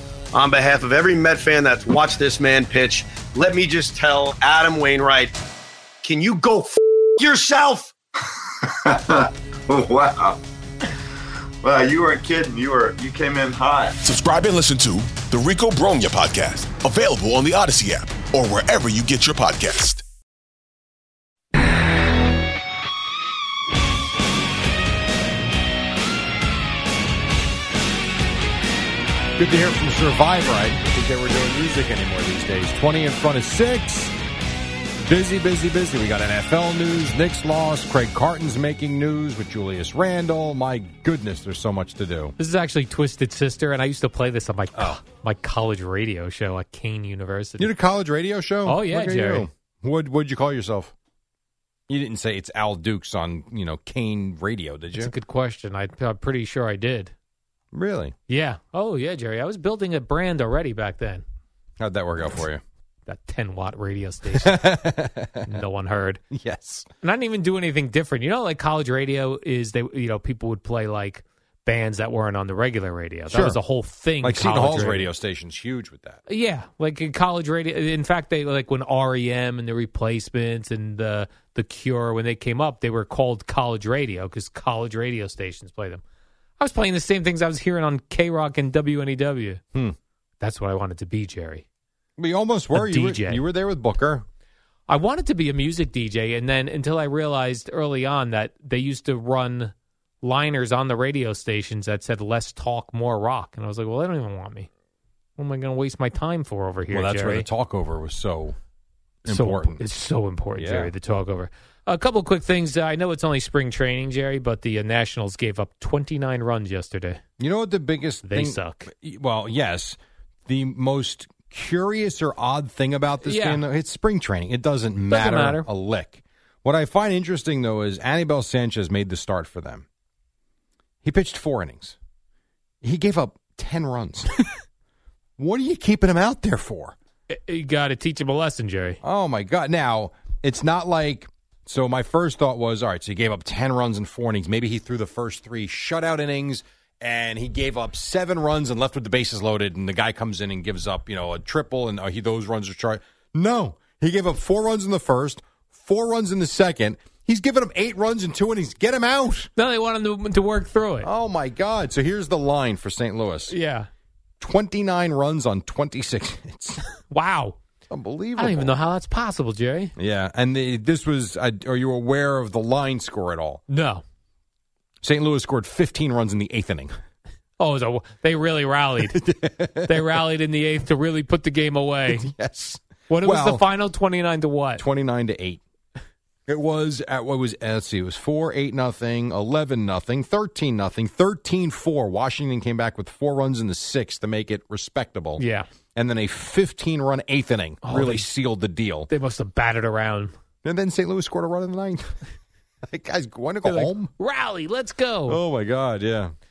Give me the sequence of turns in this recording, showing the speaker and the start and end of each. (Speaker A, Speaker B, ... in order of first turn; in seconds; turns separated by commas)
Speaker A: 0.3-5.3, Speaker A: 6.0-7.9, Speaker B: 8.6-10.4, Speaker B: 11.6-14.0, Speaker C: 14.0-20.0, Speaker D: 29.4-34.1, Speaker D: 35.0-42.4, Speaker E: 42.4-47.7, Speaker D: 44.7-45.0, Speaker D: 47.6-50.9, Speaker E: 48.6-49.5, Speaker D: 51.9-55.1, Speaker E: 54.9-57.1, Speaker D: 57.7-58.2, Speaker E: 58.3-61.2, Speaker D: 61.8-62.6, Speaker E: 63.1-64.6, Speaker D: 64.3-65.5, Speaker E: 65.5-66.2, Speaker D: 66.3-66.9, Speaker E: 67.0-75.1, Speaker D: 73.3-73.6, Speaker D: 74.2-76.2, Speaker E: 76.3-86.0, Speaker E: 86.6-89.6, Speaker E: 90.4-91.6, Speaker D: 92.2-94.2, Speaker E: 92.7-93.4, Speaker E: 94.9-104.7, Speaker E: 105.4-107.5, Speaker D: 106.9-108.6, Speaker D: 109.2-109.8, Speaker E: 109.3-117.2, Speaker D: 110.6-110.9, Speaker D: 117.4-129.9, Speaker E: 118.3-118.9, Speaker E: 123.2-123.6, Speaker E: 125.1-125.7, Speaker D: 131.0-132.0, Speaker D: 132.8-134.3, Speaker D: 135.4-136.9, Speaker E: 137.3-139.0, Speaker D: 139.0-159.5, Speaker E: 159.6-161.1, Speaker D: 161.0-163.5, Speaker E: 163.5-163.9, Speaker D: 164.4-166.8, Speaker E: 167.1-167.6, Speaker D: 167.9-168.8, Speaker E: 168.4-169.9, Speaker D: 170.0-173.6, Speaker E: 173.7-174.0, Speaker D: 175.0-176.9, Speaker E: 177.6-179.2, Speaker D: 179.1-180.2, Speaker E: 179.8-182.3, Speaker D: 182.1-183.7, Speaker E: 183.1-184.8, Speaker D: 184.8-185.6, Speaker D: 186.5-195.4, Speaker E: 195.4-195.7, Speaker D: 195.9-199.1, Speaker E: 197.8-198.3, Speaker E: 199.1-200.3, Speaker D: 200.6-202.2, Speaker D: 202.8-204.1, Speaker E: 203.7-205.4, Speaker D: 205.3-206.3